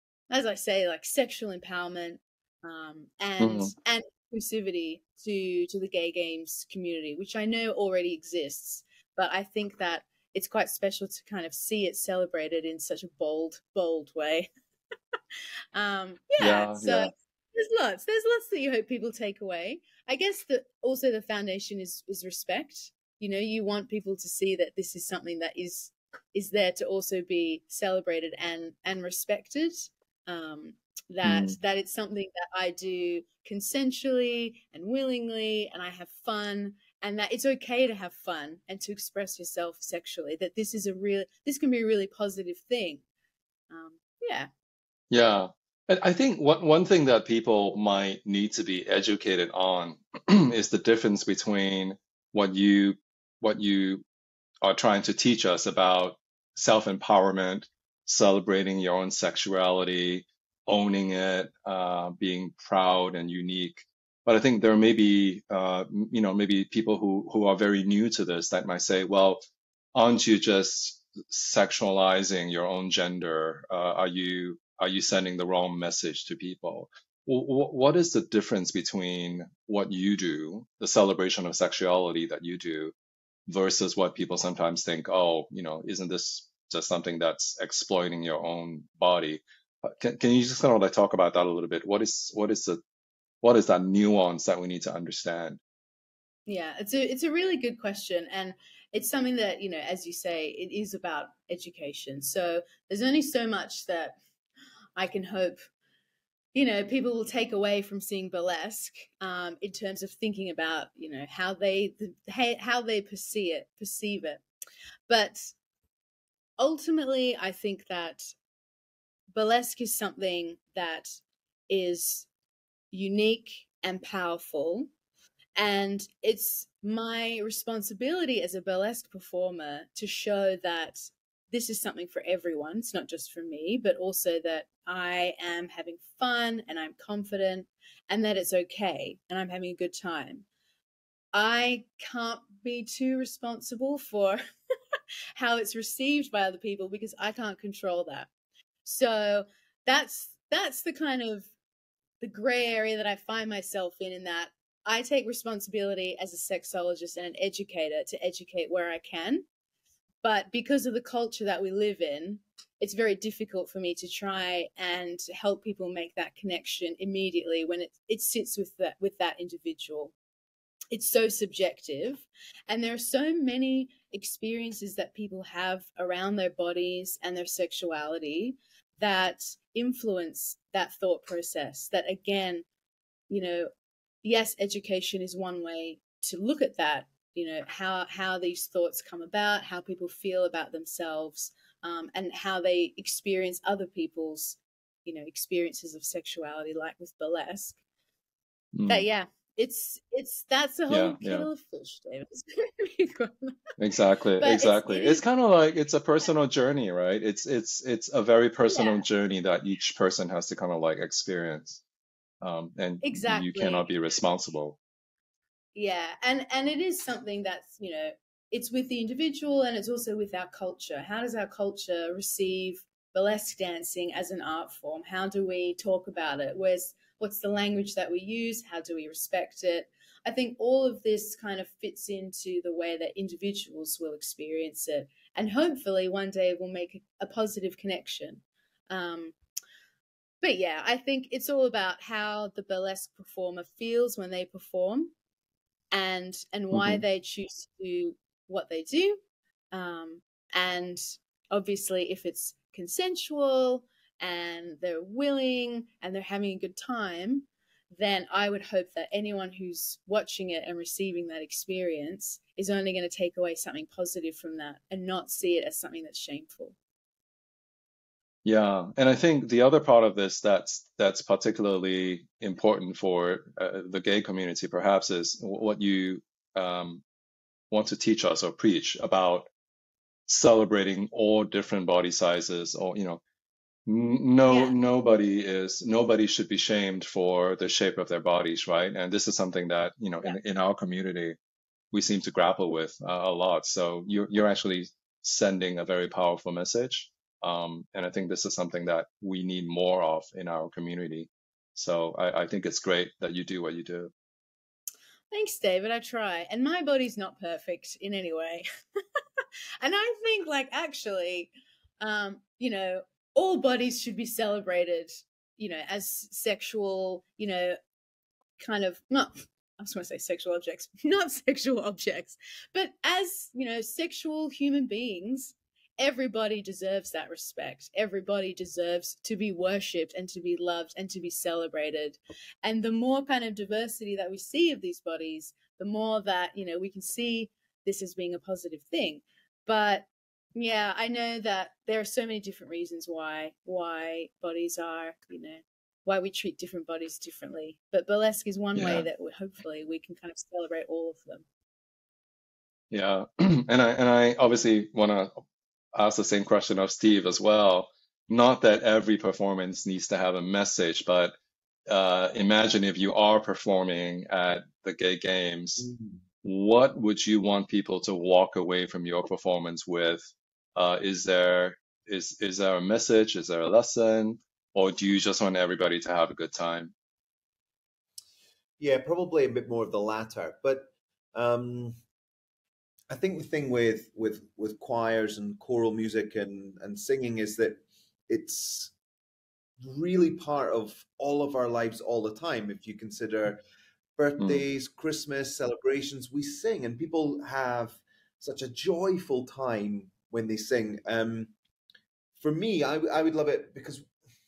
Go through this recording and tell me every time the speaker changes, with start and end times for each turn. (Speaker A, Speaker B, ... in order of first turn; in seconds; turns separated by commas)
Speaker A: 0.3-14.5, Speaker B: 3.4-3.7, Speaker A: 15.7-43.0, Speaker B: 16.4-17.1, Speaker B: 31.2-31.6, Speaker A: 43.7-44.5, Speaker B: 45.1-54.0, Speaker B: 54.6-69.4, Speaker B: 69.9-82.9, Speaker B: 83.5-92.8, Speaker B: 93.4-95.6, Speaker A: 96.5-104.2, Speaker A: 105.0-105.6, Speaker A: 106.5-114.4, Speaker A: 115.1-115.5, Speaker A: 116.6-118.3, Speaker A: 119.3-122.3, Speaker A: 122.9-124.9, Speaker A: 125.5-140.4, Speaker A: 141.3-144.4, Speaker A: 145.3-148.3, Speaker A: 148.8-151.5, Speaker A: 152.2-159.4, Speaker A: 160.2-170.1, Speaker A: 170.9-182.6, Speaker A: 183.3-183.7, Speaker A: 184.2-197.8, Speaker B: 198.7-199.1, Speaker A: 198.9-203.6, Speaker B: 200.9-201.5, Speaker B: 203.8-211.8, Speaker A: 204.4-205.2, Speaker A: 208.7-209.0, Speaker B: 212.4-214.8, Speaker A: 213.0-213.9, Speaker A: 215.7-239.3, Speaker A: 240.4-245.1, Speaker A: 245.9-266.8, Speaker B: 246.7-247.0, Speaker B: 268.4-277.0, Speaker B: 277.7-279.5, Speaker B: 280.3-283.2, Speaker B: 283.9-291.4, Speaker A: 284.5-284.8, Speaker B: 291.9-304.1, Speaker A: 305.3-308.6, Speaker A: 309.4-317.8, Speaker A: 318.6-351.4, Speaker B: 348.8-349.1, Speaker B: 352.9-355.4, Speaker B: 355.9-361.3, Speaker B: 361.9-365.9, Speaker C: 365.9-366.1, Speaker B: 366.4-376.9, Speaker C: 378.8-381.9, Speaker C: 383.1-388.9, Speaker C: 389.8-393.6, Speaker C: 394.2-401.5, Speaker B: 394.4-394.6, Speaker C: 402.4-404.1